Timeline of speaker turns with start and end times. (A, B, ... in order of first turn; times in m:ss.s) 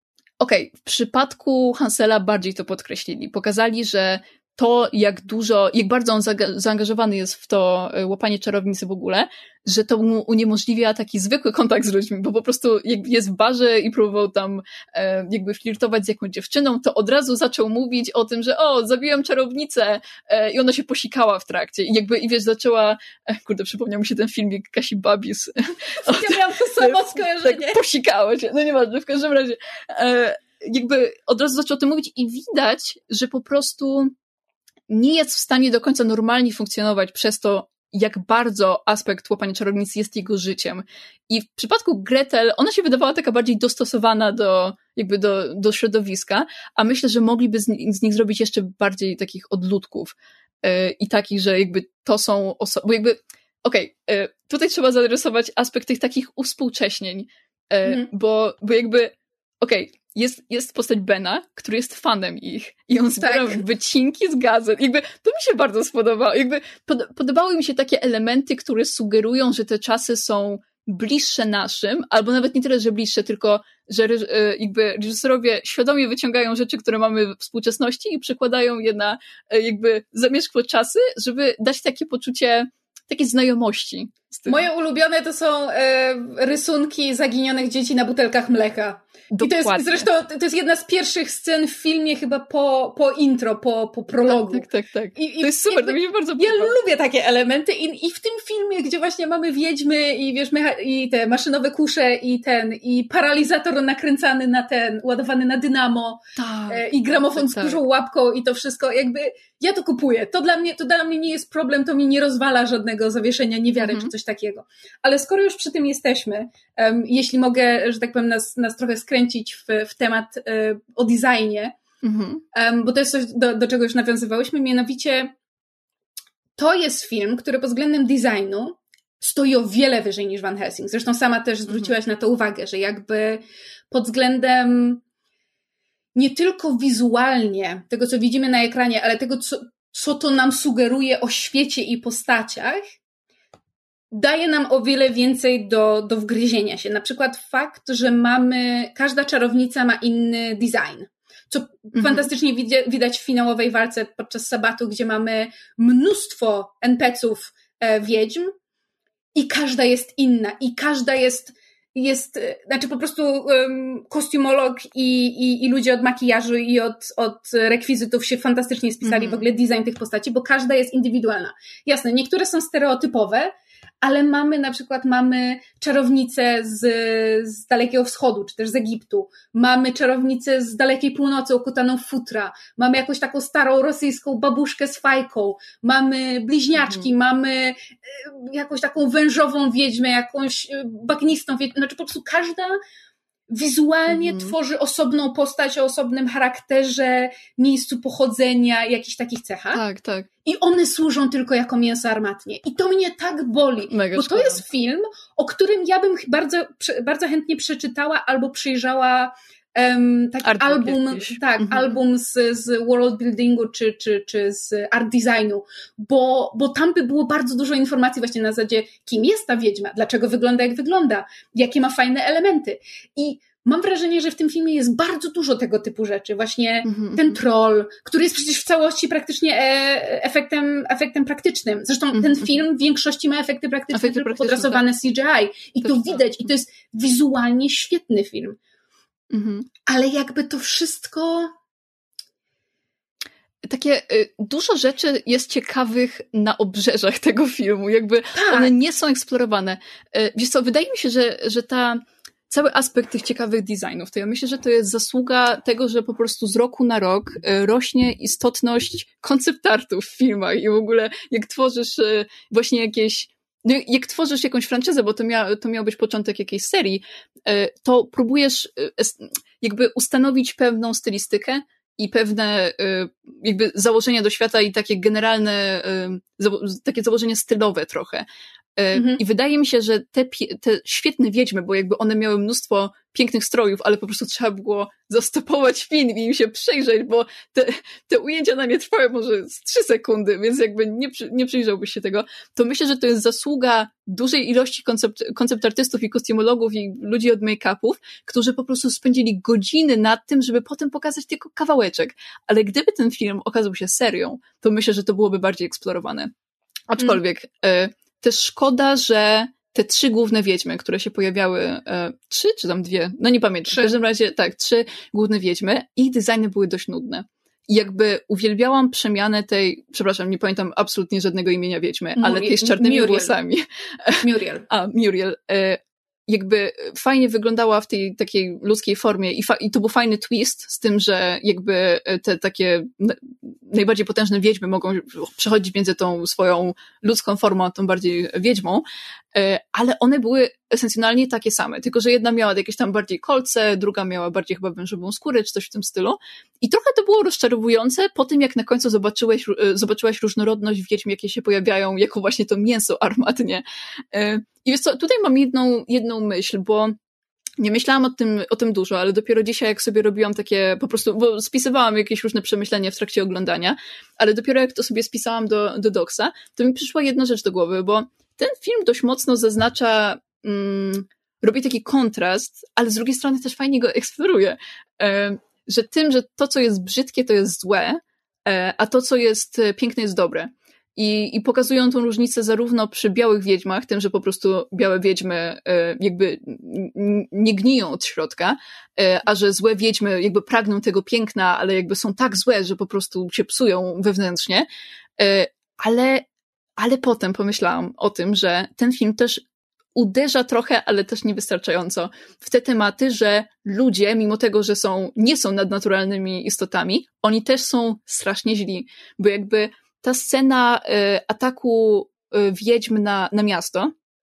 0:00.4-0:34.1 A
0:26.0-0:27.8 B
0:34.9-1:24.7 A
1:03.2-1:03.6 B
1:24.5-1:34.7 B
1:29.3-1:30.1 A
1:34.3-1:36.8 A
1:35.2-2:01.8 B
1:46.4-1:47.8 A
1:53.8-1:54.1 A
2:02.0-2:02.4 A
2:02.5-2:05.3 B
2:06.6-2:15.0 B
2:16.2-2:22.8 B
2:24.1-2:38.5 B
2:32.0-2:32.3 A
2:39.4-3:12.8 B
2:49.0-2:49.4 A
3:06.8-3:07.1 A
3:13.5-3:19.8 B
3:14.1-3:14.5 A
3:19.7-3:20.3 A
3:20.4-3:58.6 B
3:23.9-3:24.6 A
3:30.4-3:32.0 A
3:46.9-3:47.4 A
3:52.1-3:52.6 A
3:53.9-3:54.8 A
3:55.8-3:56.3 A
3:59.3-3:59.7 A
3:59.9-4:01.5 B
4:03.6-4:38.3 A
4:08.4-4:08.7 B
4:38.8-5:06.3 A
4:38.9-4:39.2 B
5:06.9-5:57.0 A
5:13.7-5:14.0 B
5:22.2-5:23.4 B
5:24.2-5:24.7 B
5:57.6-6:34.7 A
6:35.2-6:36.3 A
6:36.8-6:39.4 A
6:40.0-6:53.9 A